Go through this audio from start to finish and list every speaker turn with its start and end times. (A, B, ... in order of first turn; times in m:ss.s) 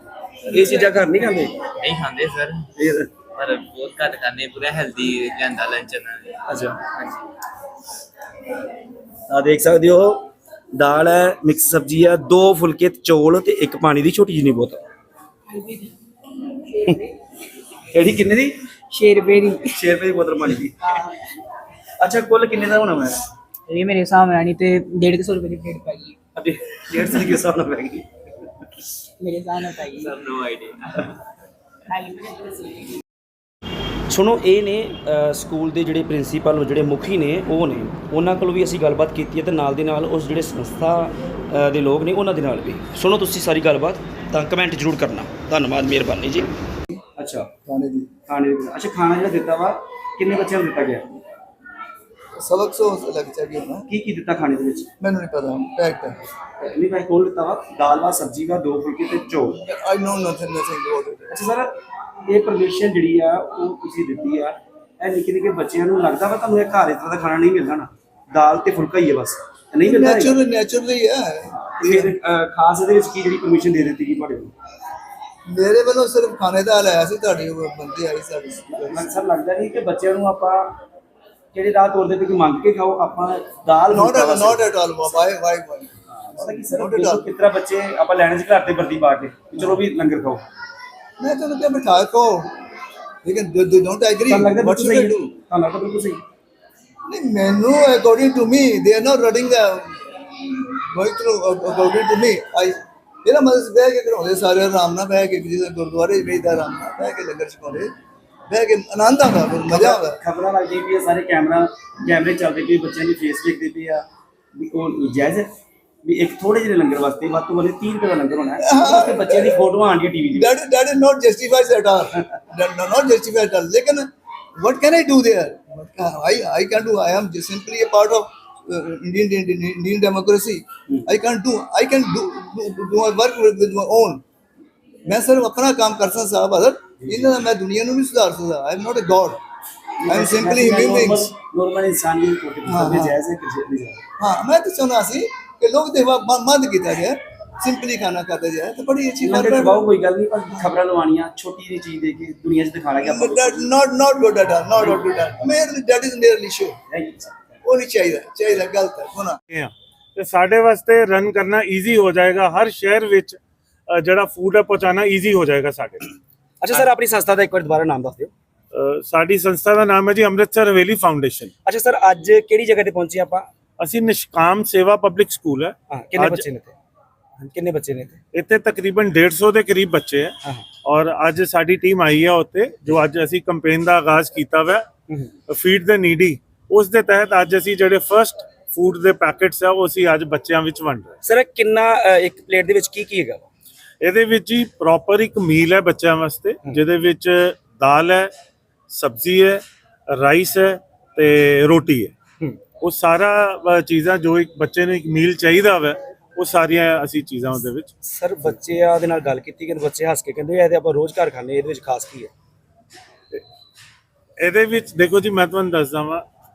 0:00.4-0:01.6 A
0:01.8-0:02.6 B
0:02.8-0:03.1 A
0:03.3-0:07.2 B
0:06.5-0:06.9 A
0:09.3-0:14.8 A
0:15.5-0:17.1 C
0:17.9-0:18.6 A
0:18.9-0:19.8 C
0:19.7-0:20.9 A
0:20.8-0:21.2 C
0:22.0-0:23.2 A
0:23.7-0:26.2 C
0:26.3-0:28.1 A
0:29.2-0:30.2 C
0:30.4-0:30.8 B
0:31.9-0:33.0 C
0:34.1-0:46.5 A
0:47.2-0:47.5 A
0:47.6-0:48.1 D
0:48.3-0:51.2 A
0:52.4-0:53.9 D
0:53.9-0:54.9 A
0:55.0-0:56.2 D
0:56.6-0:59.6 A
0:59.6-1:01.4 D
1:01.3-1:01.7 A
1:02.2-1:10.4 A
1:09.8-1:12.1 D
1:11.8-1:14.5 A
1:15.4-1:19.1 D
1:18.9-1:20.7 A
1:21.5-1:24.6 A
1:23.9-1:27.3 D
1:26.1-1:30.4 A
1:31.2-1:32.5 D
1:33.2-1:35.2 D
1:34.3-1:36.2 A
1:37.1-1:47.9 D
1:48.5-1:50.2 D
1:49.7-1:55.5 A
1:56.0-2:00.4 A
1:58.6-1:59.6 D
2:00.3-2:14.2 D
2:15.0-2:19.4 D
2:17.0-2:17.3 A
2:20.0-2:24.0 A
2:20.1-2:21.3 D
2:22.6-2:23.2 D
2:24.2-2:29.8 D
2:29.2-2:33.7 A
2:33.0-2:36.8 D
2:36.9-2:37.6 A
2:37.6-2:39.4 D
2:39.5-2:43.4 E
2:43.9-2:46.1 E
2:46.6-2:48.3 A
2:48.7-2:51.5 E
2:51.6-2:53.5 A
2:53.8-2:56.4 E
2:55.9-2:56.8 A
2:57.4-2:58.2 A
2:58.3-3:04.8 E
3:05.5-3:11.2 E
3:11.2-3:13.4 A
3:14.0-3:18.3 E
3:18.9-3:22.1 E
3:22.8-3:27.9 E
3:28.0-3:32.3 A
3:34.4-3:36.2 E